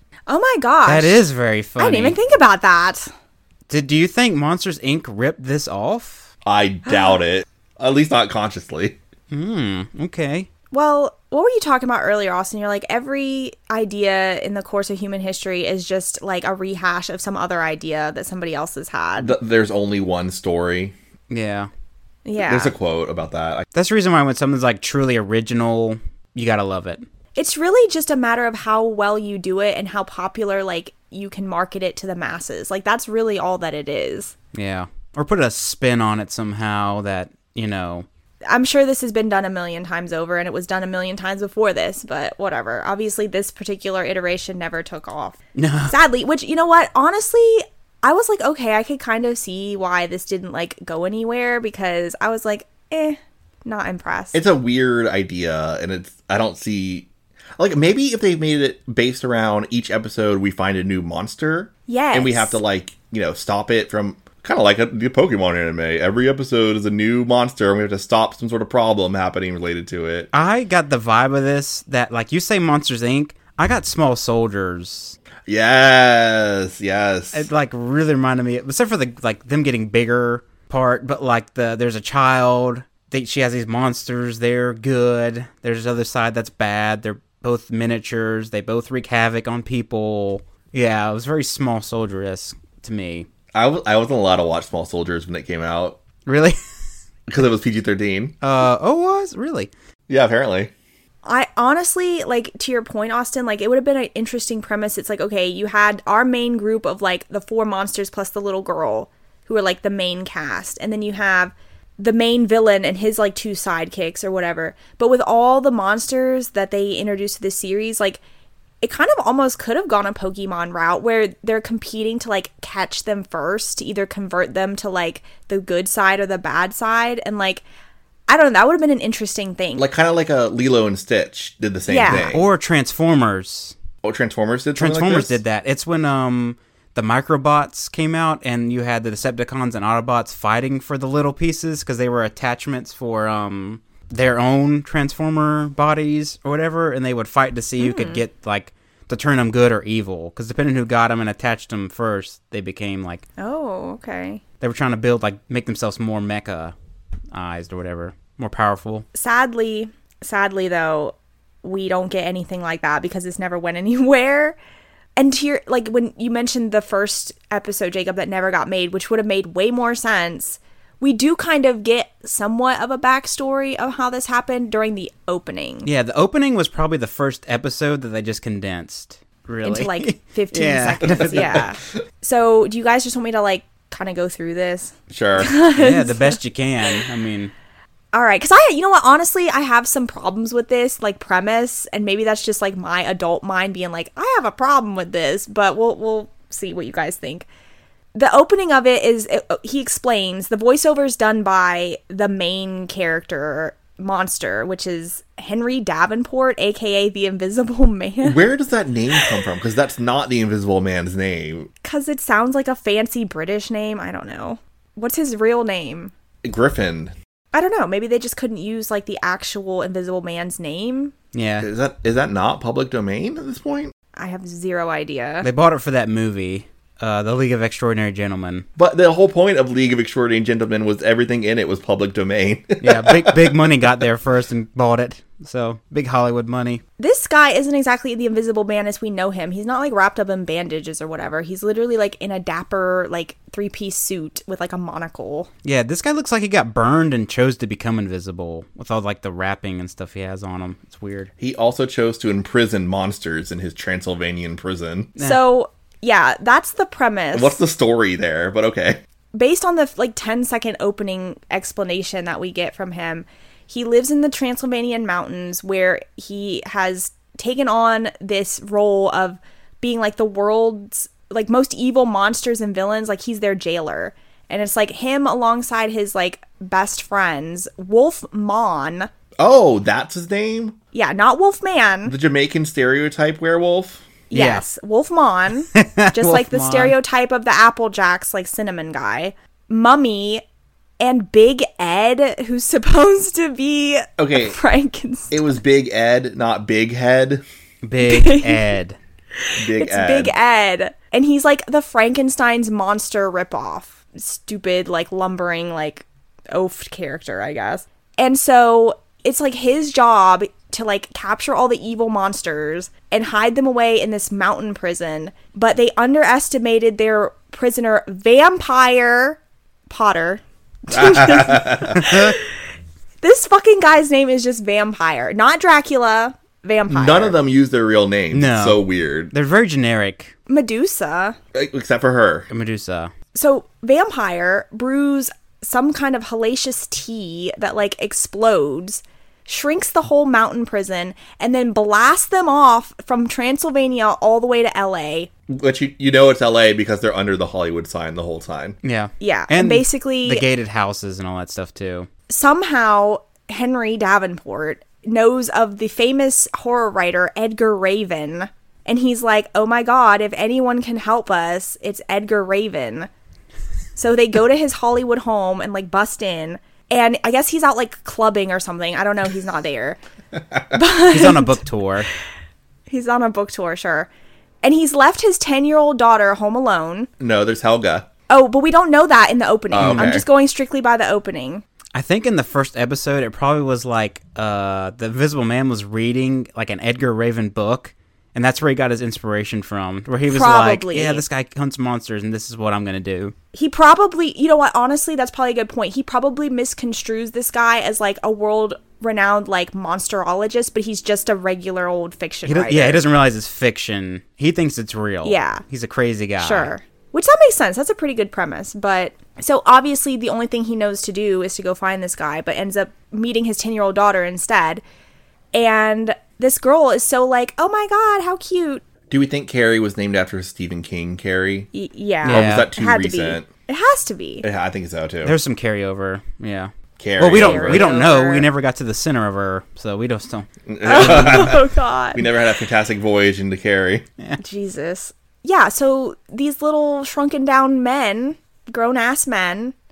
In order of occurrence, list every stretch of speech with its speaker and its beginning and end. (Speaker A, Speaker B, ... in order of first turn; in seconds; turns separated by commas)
Speaker A: 0.3-1.2, Speaker B: 0.9-2.2, Speaker A: 1.8-3.1, Speaker B: 3.7-6.3, Speaker C: 6.5-9.0, Speaker A: 6.9-7.2, Speaker B: 9.3-10.5, Speaker A: 10.7-19.4, Speaker C: 19.2-20.9, Speaker B: 21.3-21.7, Speaker A: 22.2-22.7, Speaker C: 22.4-23.6, Speaker B: 23.7-27.0, Speaker A: 27.3-34.3, Speaker B: 34.5-38.0, Speaker A: 38.5-45.4, Speaker B: 45.5-45.9, Speaker A: 45.9-54.4, Speaker C: 54.3-70.3, Speaker A: 61.9-62.6, Speaker B: 70.3-75.2, Speaker C: 75.5-77.5, Speaker B: 77.3-93.3, Speaker C: 93.5-96.0, Speaker B: 96.2-96.6, Speaker C: 97.3-98.3, Speaker B: 98.4-99.7, Speaker C: 100.1-100.7, Speaker A: 101.2-118.2, Speaker A: 118.8-127.6, Speaker A: 128.3-129.8, Speaker C: 129.8-132.5, Speaker A: 131.9-132.3, Speaker B: 132.1-133.7, Speaker C: 134.0-135.4, Speaker B: 134.8-153.2, Speaker A: 147.8-148.2, Speaker A: 153.4-154.4, Speaker B: 154.6-156.7, Speaker B: 157.3-159.0, Speaker A: 159.1-164.6, Speaker A: 165.2-175.9, Speaker B: 175.8-181.6, Speaker A: 179.6-186.4, Speaker C: 181.1-181.6, Speaker C: 185.1-185.5, Speaker B: 185.8-187.5, Speaker A: 188.1-197.5, Speaker A: 198.1-208.4, Speaker C: 208.2-211.7, Speaker A: 211.8-216.1, Speaker C: 216.4-217.1, Speaker A: 217.5-221.1, Speaker B: 221.3-221.7, Speaker C: 221.6-223.9, Speaker A: 224.2-225.4, Speaker B: 225.4-228.6, Speaker C: 228.8-233.7, Speaker B: 232.8-236.8, Speaker A: 237.0-245.5, Speaker B: 245.6-251.3, Speaker C: 251.4-255.1, Speaker A: 255.2-257.6, Speaker C: 257.3-259.0, Speaker A: 259.3-279.1, Speaker C: 279.4-280.8, Speaker A: 280.9-282.1, Speaker C: 282.1-284.0, Speaker A: 284.3-290.4, Speaker B: 284.3-284.6, Speaker B: 285.7-286.9, Speaker A: 291.0-295.4, Speaker C: 294.2-294.6, Speaker C: 295.3-297.4, Speaker B: 297.8-299.0, Speaker A: 298.0-298.6, Speaker A: 299.4-322.5, Speaker C: 299.6-300.3, Speaker C: 320.9-322.0, Speaker B: 322.0-322.4, Speaker A: 323.2-327.4, Speaker C: 326.9-329.3, Speaker B: 328.3-330.3, Speaker A: 330.5-331.4, Speaker C: 331.5-332.5, Speaker B: 332.5-333.1, Speaker A: 333.3-345.3, Speaker C: 345.5-348.8, Speaker B: 348.8-352.1, Speaker A: 349.2-350.4, Speaker A: 352.3-363.1, Speaker A: 364.0-370.0, Speaker A: 370.7-371.6, Speaker B: 371.0-372.1, Speaker A: 372.9-374.1, Speaker A: 374.6-377.1, Speaker C: 377.2-378.1, Speaker A: 378.3-381.6, Speaker C: 379.7-380.2, Speaker B: 379.8-380.1, Speaker B: 381.9-393.3, Speaker A: 390.3-391.2, Speaker A: 393.5-403.0, Speaker B: 402.4-406.7, Speaker A: 405.2-405.6, Speaker A: 406.4-414.8, Speaker A: 415.5-418.8, Speaker C: 419.1-421.7, Speaker A: 421.7-424.4, Speaker C: 422.2-423.5, Speaker B: 422.2-422.7, Speaker C: 424.4-425.4, Speaker B: 425.2-430.5, Speaker C: 427.0-427.9, Speaker A: 427.3-428.4, Speaker C: 430.7-434.1, Speaker A: 430.8-432.2, Speaker A: 434.4-439.7